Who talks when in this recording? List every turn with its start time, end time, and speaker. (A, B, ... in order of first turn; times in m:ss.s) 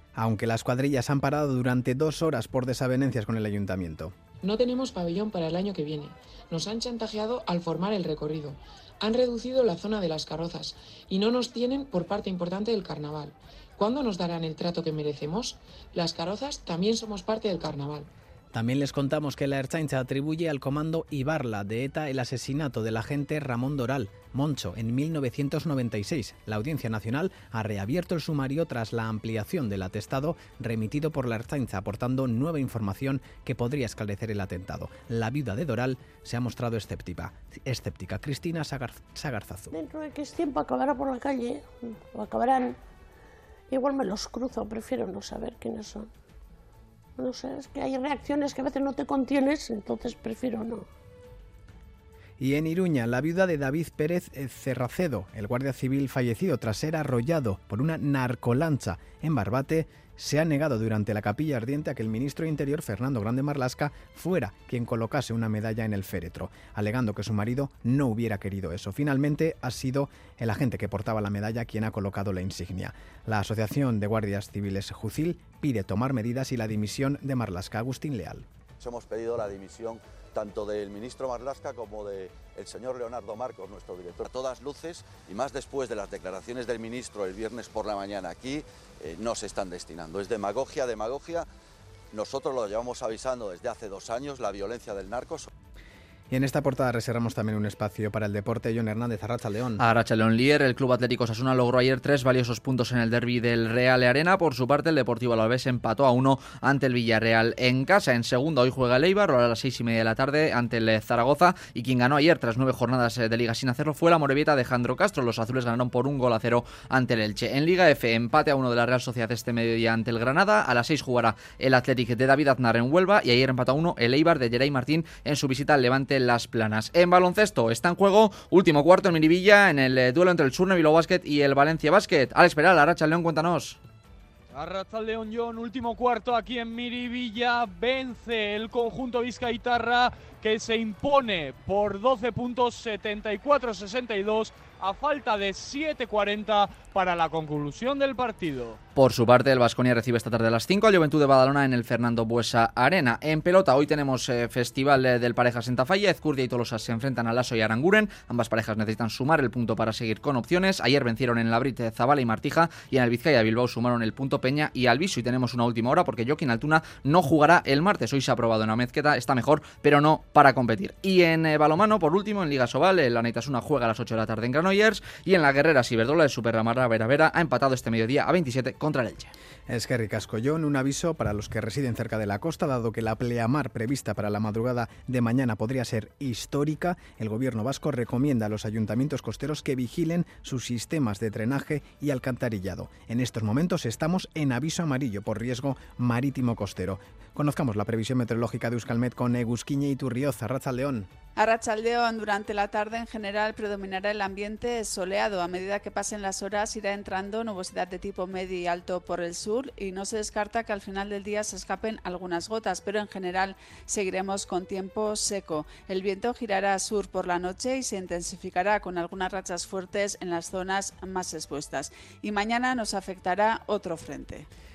0:00.2-0:04.1 A
0:04.4-0:18.1 B
0:18.5-0:39.7 A
0:39.7-0:42.8 C
0:43.7-0:46.1 C
0:47.2-0:50.8 C
0:52.4-1:18.4 A
1:18.8-1:31.4 D
1:32.1-1:35.5 D
1:36.3-1:39.8 A
1:39.8-2:13.8 E
2:14.5-2:28.8 F
2:29.0-2:59.3 E
2:59.7-3:21.1 A
3:21.4-3:44.4 G